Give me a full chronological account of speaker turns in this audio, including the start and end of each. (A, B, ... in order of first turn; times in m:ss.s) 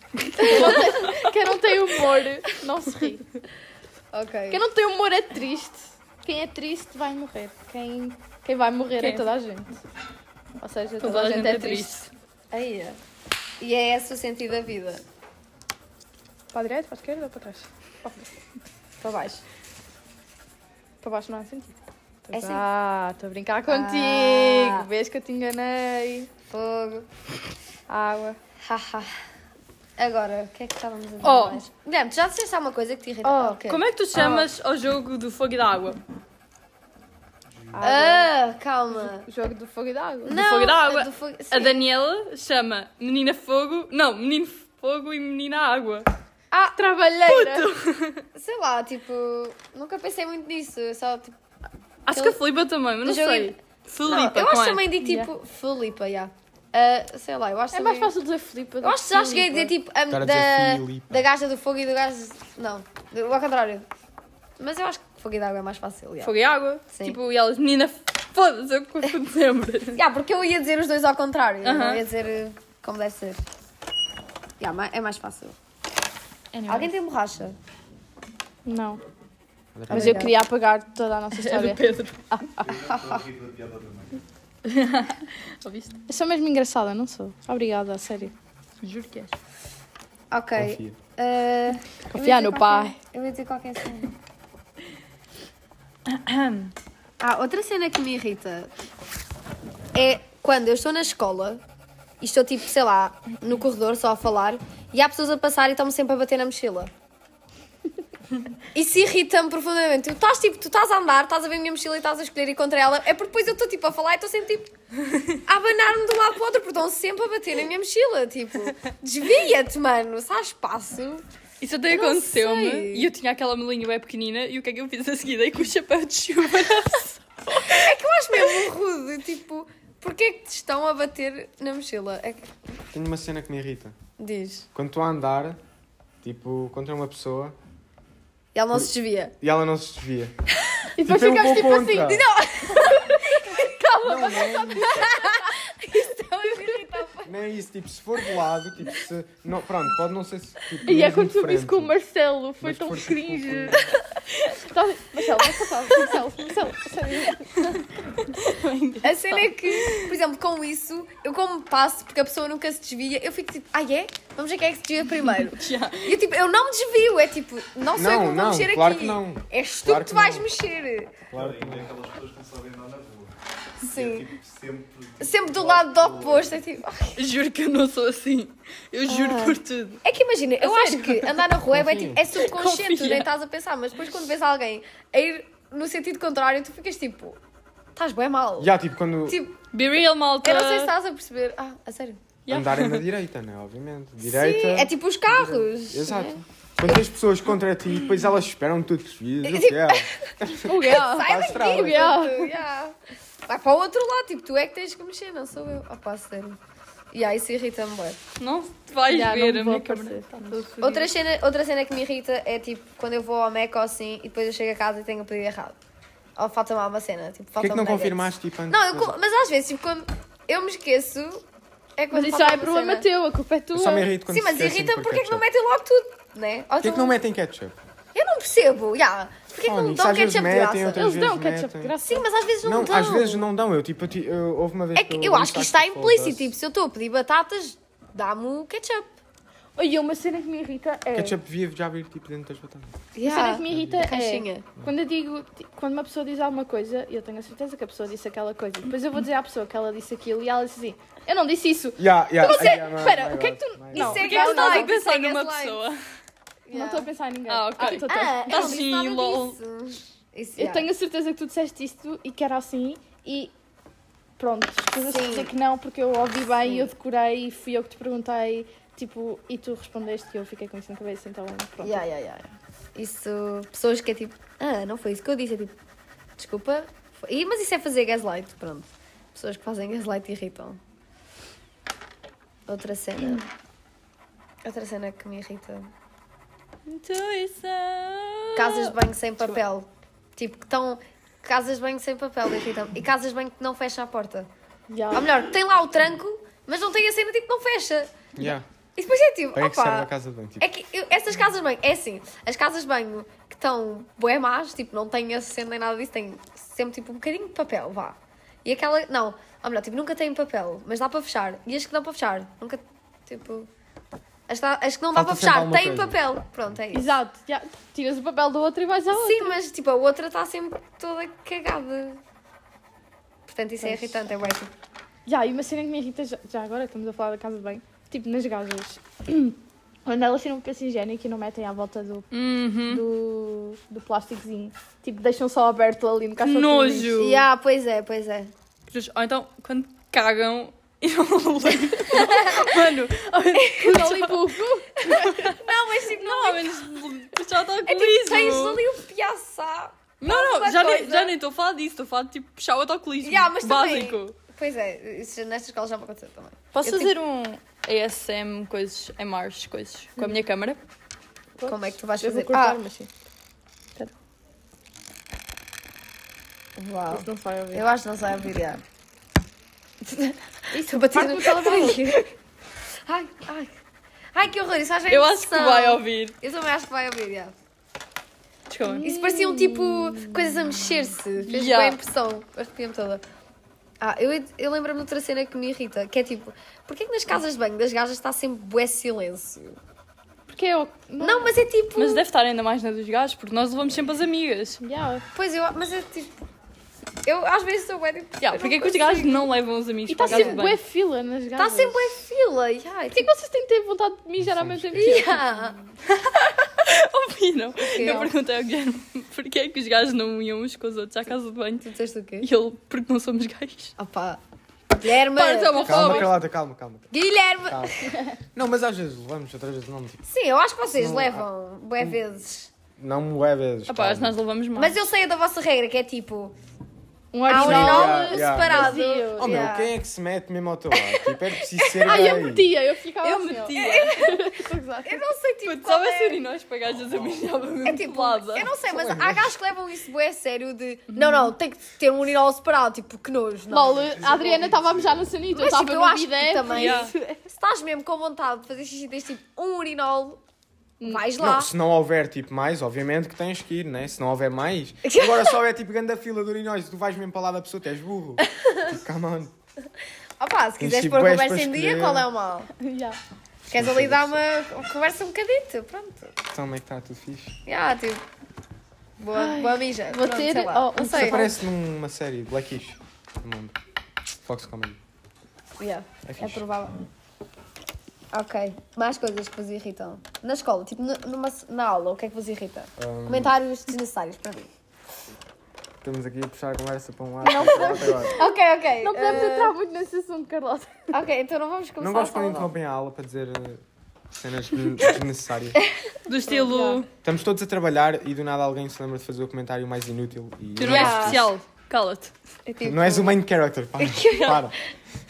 0:00.2-0:01.2 A
0:00.4-0:03.3 B
0:00.4-0:01.1 C
0:04.1-0:04.6 C
0:04.5-0:09.8 B
0:09.0-0:09.3 A
0:10.6-0:11.9 B
0:11.0-0:12.1 A
0:11.1-0:11.8 C
0:12.5-0:13.0 C
0:13.6-0:15.0 C
0:16.5-0:18.3 B
0:19.0-0:19.4 C
0:21.0-0:26.3 B
0:22.3-0:22.6 C
0:23.7-0:24.9 C
0:26.5-0:27.1 C
0:27.9-0:28.4 B
0:28.6-0:29.2 C
0:30.0-0:34.4 C
0:31.2-0:31.6 B
0:33.2-0:33.6 B
0:33.7-0:36.0 A
0:37.7-0:38.3 B
0:37.8-0:39.3 C
0:38.9-0:40.4 B
0:40.2-0:41.8 C
0:40.3-0:46.1 A
0:46.5-0:47.0 C
0:46.8-0:47.7 B
0:47.2-0:48.2 A
0:48.4-0:51.4 C
0:52.1-0:54.9 A
0:52.1-0:52.4 C
0:53.0-0:58.1 C
0:55.0-0:55.3 B
0:57.7-0:59.7 B
0:58.8-1:03.9 C
1:00.1-1:01.3 D
1:04.6-1:06.3 C
1:06.2-1:10.0 A
1:06.9-1:07.2 C
1:10.0-1:13.4 C
1:11.6-1:12.0 A
1:14.6-1:15.6 C
1:16.5-1:16.9 B
1:16.7-1:17.6 C
1:18.7-1:19.0 B
1:19.8-1:20.3 D
1:19.9-1:20.3 C
1:19.9-1:22.7 B
1:21.3-1:22.2 A
1:22.6-1:24.2 E
1:22.9-1:23.2 C
1:24.6-1:26.0 A
1:26.1-1:28.3 B
1:28.8-1:29.3 A
1:30.3-1:34.1 C
1:30.6-1:31.0 D
1:32.1-1:33.0 B
1:36.1-1:36.7 A
1:37.2-1:38.7 C
1:40.0-1:41.6 C
1:42.2-1:46.9 C
1:48.7-1:54.7 C
1:55.5-2:01.2 C
2:01.6-2:07.9 A
2:01.9-2:03.1 C
2:07.7-2:12.5 C
2:12.9-2:14.0 D
2:14.2-2:14.7 C
2:14.7-2:15.6 D
2:16.2-2:17.6 D
2:18.6-2:19.3 C
2:18.7-2:20.3 D
2:21.0-2:22.2 B
2:21.0-2:22.3 D
2:22.0-2:27.3 C
2:23.5-2:25.1 B
2:24.0-2:25.2 D
2:27.2-2:32.0 D
2:30.8-2:33.9 B
2:32.6-2:33.9 D
2:34.5-2:37.8 B
2:37.6-2:40.2 A
2:39.0-2:51.2 C
2:45.5-2:46.2 A
2:47.9-2:50.5 D
2:51.3-2:51.9 D
2:51.3-2:56.6 E
2:53.8-2:54.3 C
2:55.2-2:57.2 C
2:57.2-3:00.0 A
2:59.1-3:07.4 C
3:00.6-3:01.4 A
3:01.7-3:02.2 D
3:02.3-3:03.3 A
3:08.0-3:08.7 C
3:08.6-3:09.4 D
3:09.3-3:09.6 C
3:09.7-3:10.9 A
3:10.4-3:12.2 C
3:12.5-3:13.1 A
3:12.5-3:22.1 D
3:14.2-3:17.0 C
3:19.4-3:26.6 C
3:20.6-3:22.5 B
3:27.1-3:28.2 C
3:28.4-3:31.1 A
3:29.1-3:30.7 B
3:30.8-3:35.8 C
3:36.4-3:41.4 C
3:37.6-3:39.2 D
3:42.0-3:43.1 C
3:42.1-3:44.1 B
3:43.7-3:45.4 D
3:44.3-3:47.2 C
3:46.8-3:47.8 D
3:48.1-3:51.1 C
3:49.6-3:52.0 D
3:50.9-3:52.3 B
3:52.0-3:53.5 C
3:52.6-3:56.5 D
3:55.0-3:59.1 C
3:59.8-4:01.4 B
4:01.1-4:03.0 D
4:03.2-4:04.6 C
4:03.2-4:15.0 B
4:03.7-4:04.1 D
4:12.0-4:14.2 D
4:12.4-4:12.9 C
4:13.9-4:15.8 C
4:14.1-4:16.0 A
4:16.7-4:17.1 C
4:16.7-4:18.8 B
4:17.5-4:19.6 A
4:17.8-4:20.9 C
4:20.6-4:23.5 B
4:24.4-4:32.1 B
4:25.0-4:25.5 C
4:26.6-4:26.9 C
4:31.8-4:35.7 C
4:36.4-4:40.8 C
4:42.7-4:43.4 C
4:44.6-4:45.9 C
4:46.9-4:49.6 A
4:48.6-4:54.5 C
4:54.9-4:55.3 B
4:55.1-4:58.3 C
4:58.4-4:58.7 D
4:59.0-5:00.1 C
4:59.5-5:00.7 D
5:00.6-5:13.7 C
5:14.5-5:17.2 C
5:15.1-5:16.2 D
5:16.9-5:19.6 B
5:19.1-5:22.2 C
5:23.5-5:24.7 C
5:23.8-5:24.2 B
5:25.3-5:32.3 B
5:32.3-5:33.0 A
5:32.9-5:37.2 B
5:36.4-5:37.5 A
5:37.2-5:38.5 C
5:38.9-5:44.5 A
5:42.1-5:42.7 C
5:43.6-5:44.0 C
5:43.8-5:45.2 B
5:45.0-5:48.8 A
5:45.1-5:47.0 C
5:47.8-5:51.3 C
5:50.2-5:54.4 A
5:53.2-5:57.1 C
5:56.7-6:00.8 A
6:01.6-6:03.1 B
6:01.6-6:02.8 C
6:06.8-6:08.8 C
6:07.1-6:07.9 B
6:10.0-6:12.3 C
6:10.7-6:12.2 B
6:13.1-6:13.7 C
6:14.3-6:17.5 C
6:15.1-6:16.4 A
6:18.7-6:19.1 A
6:18.8-6:20.4 B
6:19.0-6:23.2 C
6:21.4-6:22.0 A
6:24.0-6:29.8 C
6:30.5-6:31.6 B
6:31.2-6:32.2 C
6:32.0-6:34.8 A
6:34.8-6:35.2 B
6:35.3-6:36.3 C
6:37.2-6:39.4 C
6:38.4-6:40.8 A
6:40.1-6:42.0 B
6:40.2-6:40.6 C
6:41.6-6:43.3 C
6:43.1-6:45.4 B
6:44.4-6:45.2 D
6:45.0-6:45.8 C
6:46.1-6:51.9 A
6:47.8-6:48.3 C
6:51.8-6:52.5 C
6:52.4-6:54.0 A
6:54.0-6:54.4 C
6:54.9-6:56.3 C
6:55.3-6:56.4 A
6:55.8-6:57.1 D
6:57.1-6:58.1 C
6:57.7-6:58.0 D
6:58.5-7:00.2 D
7:00.3-7:02.7 C
7:00.9-7:01.5 D
7:03.0-7:04.4 D
7:03.9-7:05.1 A
7:04.8-7:06.6 C
7:07.3-7:09.7 B
7:07.5-7:09.9 C
7:07.5-7:12.7 D
7:12.0-7:15.2 B
7:13.2-7:14.4 A
7:13.7-7:14.5 C
7:15.0-7:16.4 C
7:15.6-7:18.7 A
7:17.2-7:17.5 E
7:17.8-7:24.6 C
7:18.8-7:19.6 D
7:21.1-7:21.5 A
7:23.7-7:27.4 B
7:24.0-7:25.3 E
7:25.5-7:30.4 C
7:26.7-7:27.1 A
7:31.0-7:31.3 B
7:31.0-7:31.7 C
7:31.4-7:39.5 D
7:35.0-7:35.6 C
7:38.5-7:38.9 C
7:40.4-7:42.7 C
7:40.8-7:42.3 D
7:42.8-7:43.2 B
7:43.7-7:44.4 D
7:43.7-7:46.4 C
7:46.5-7:47.6 D
7:47.7-7:48.2 C
7:49.2-7:51.5 C
7:49.3-7:51.6 B
7:51.0-7:53.8 D
7:54.4-7:55.0 D
7:55.8-7:57.0 C
7:56.2-7:56.6 D
7:58.3-8:04.7 C
8:03.0-8:03.6 D
8:06.0-8:08.4 D
8:07.4-8:11.1 B
8:08.4-8:09.7 C
8:11.1-8:12.7 C
8:12.0-8:15.8 D
8:16.3-8:17.1 A
8:16.5-8:17.0 B
8:17.2-8:21.5 D
8:20.8-8:22.3 A
8:20.8-8:21.5 C
8:22.7-8:23.4 C
8:22.8-8:24.8 D
8:24.0-8:24.7 C
8:24.3-8:24.6 A